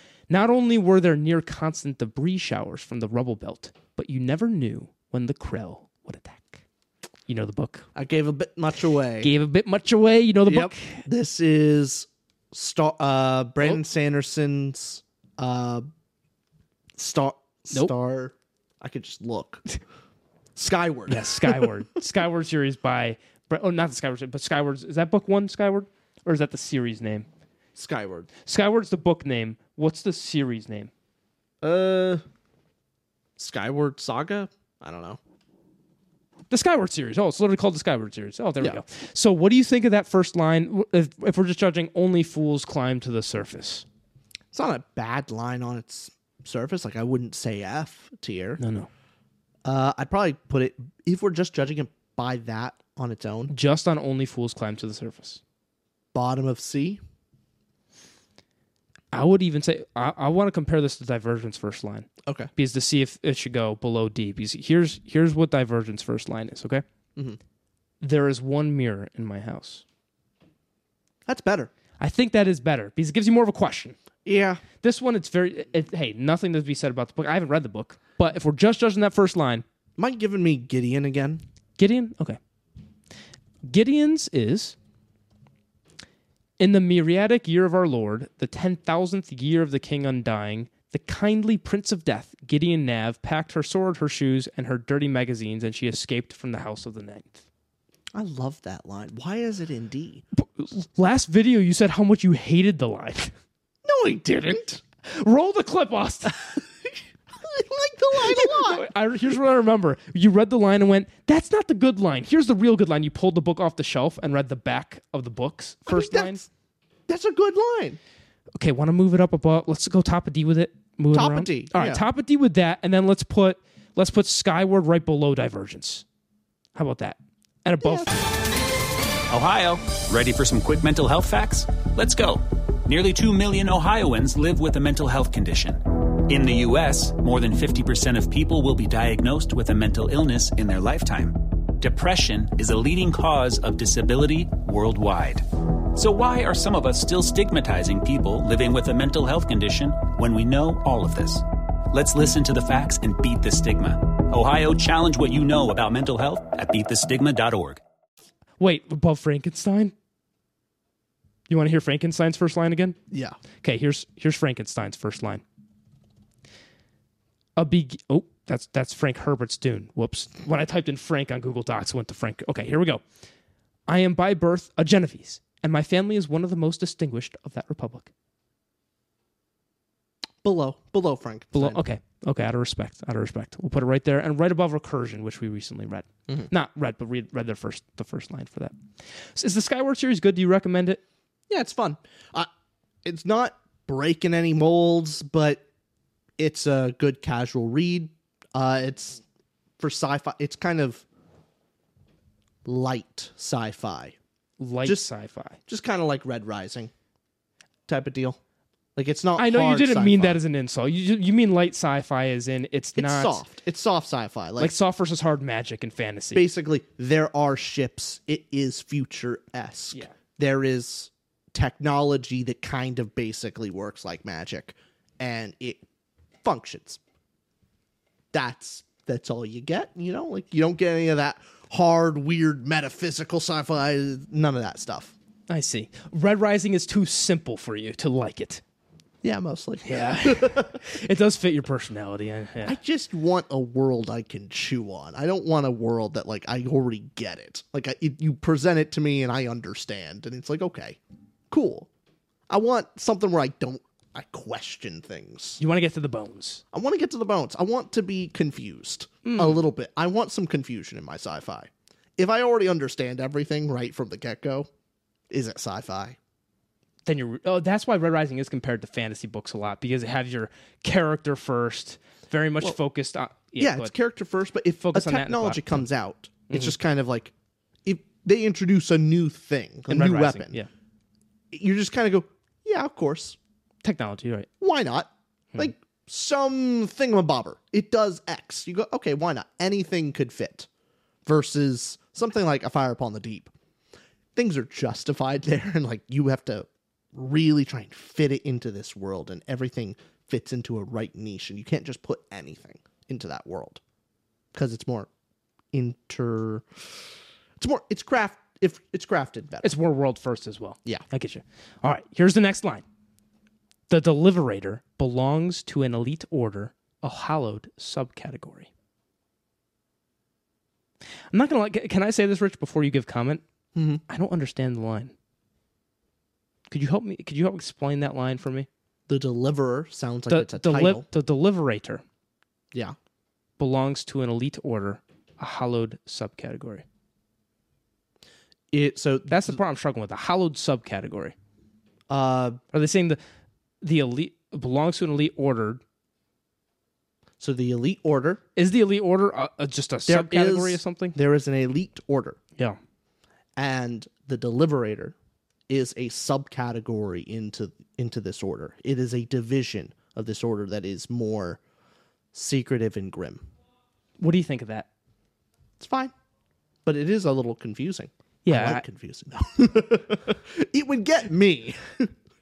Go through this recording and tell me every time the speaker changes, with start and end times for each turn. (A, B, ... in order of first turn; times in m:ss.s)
0:00.3-0:06.6 A
0:07.3-0:07.9 A
0:08.0-0:09.3 B
0:09.2-0:11.0 A
0:10.4-0:15.9 B
0:17.0-0:19.6 B
0:20.6-0:21.6 B
0:21.1-0:27.3 A
0:27.8-0:28.3 B
0:28.4-0:30.9 A
0:31.6-0:32.2 B
0:33.4-0:35.2 B
0:36.5-0:43.8 A
0:44.5-0:48.6 B
0:48.6-0:48.9 A
0:49.6-0:53.5 B
0:53.5-0:55.4 A
0:56.1-0:57.0 B
0:59.1-1:06.8 A
1:02.2-1:02.5 B
1:08.0-1:09.8 A
1:11.3-1:11.7 B
1:12.0-1:14.0 A
1:14.2-1:14.6 B
1:14.8-1:19.6 A
1:20.0-1:21.4 B
1:21.8-1:22.4 A
1:23.6-1:24.8 A
1:26.6-1:37.4 A
1:38.1-1:40.2 B
1:40.3-1:43.3 A
1:43.8-1:44.8 B
1:45.0-1:46.6 A
1:47.4-1:48.9 B
1:48.2-1:56.4 A
1:55.9-1:56.5 B
1:57.1-1:58.0 B
1:58.6-2:06.0 A
2:01.1-2:02.0 B
2:06.8-2:08.2 A
2:07.8-2:08.2 B
2:09.3-2:37.8 C
2:38.6-2:39.9 A
2:41.5-2:43.0 A
2:43.1-2:43.4 B
2:43.6-2:45.4 A
2:47.6-2:53.0 A
2:53.9-2:58.1 A
3:00.4-3:01.8 B
3:01.5-3:08.8 A
3:09.4-3:11.0 A
3:11.5-3:12.5 B
3:13.0-3:15.6 B
3:16.4-3:19.2 B
3:19.8-3:21.0 B
3:22.6-3:24.2 B
3:24.6-3:25.6 A
3:25.7-3:26.9 B
3:27.9-3:28.4 B
3:29.0-3:30.4 B
3:29.4-3:33.4 A
3:33.0-3:34.8 B
3:34.6-3:36.4 A
3:36.3-3:45.8 B
3:46.4-3:47.0 B
3:48.3-3:55.1 B
3:55.5-3:58.6 A
3:59.2-4:00.8 B
3:59.8-4:02.8 A
4:02.6-4:11.0 B
4:11.5-4:11.9 B
4:12.5-4:15.6 B
4:15.6-4:16.6 A
4:16.7-4:24.7 B
4:19.2-4:19.6 A
4:25.3-4:26.2 B
4:27.1-4:33.9 A
4:33.6-4:37.3 B
4:34.8-4:35.9 A
4:37.8-4:40.6 B
4:39.9-4:40.7 A
4:41.5-4:43.4 B
4:43.8-4:44.5 A
4:44.6-4:50.7 B
4:51.3-4:53.5 B
4:54.4-5:03.8 B
5:04.5-5:05.1 B
5:05.7-5:06.8 B
5:07.6-5:09.8 B
5:09.6-5:12.8 A
5:13.9-5:18.7 A
5:21.3-5:23.4 A
5:23.8-5:24.0 B
5:24.1-5:25.1 A
5:26.7-5:28.7 A
5:29.1-5:31.0 B
5:30.3-5:32.0 A
5:33.6-5:36.8 A
5:38.7-5:39.6 B
5:39.3-5:41.4 A
5:42.1-5:42.6 B
5:42.7-5:43.2 A
5:43.8-5:45.8 A
5:47.4-5:48.4 B
5:48.6-5:51.2 A
5:50.1-5:52.4 B
5:53.6-5:55.2 B
5:55.7-6:01.6 B
6:02.3-6:03.4 B
6:04.2-6:04.9 A
6:05.8-6:06.1 B
6:06.9-6:12.1 B
6:08.4-6:08.8 A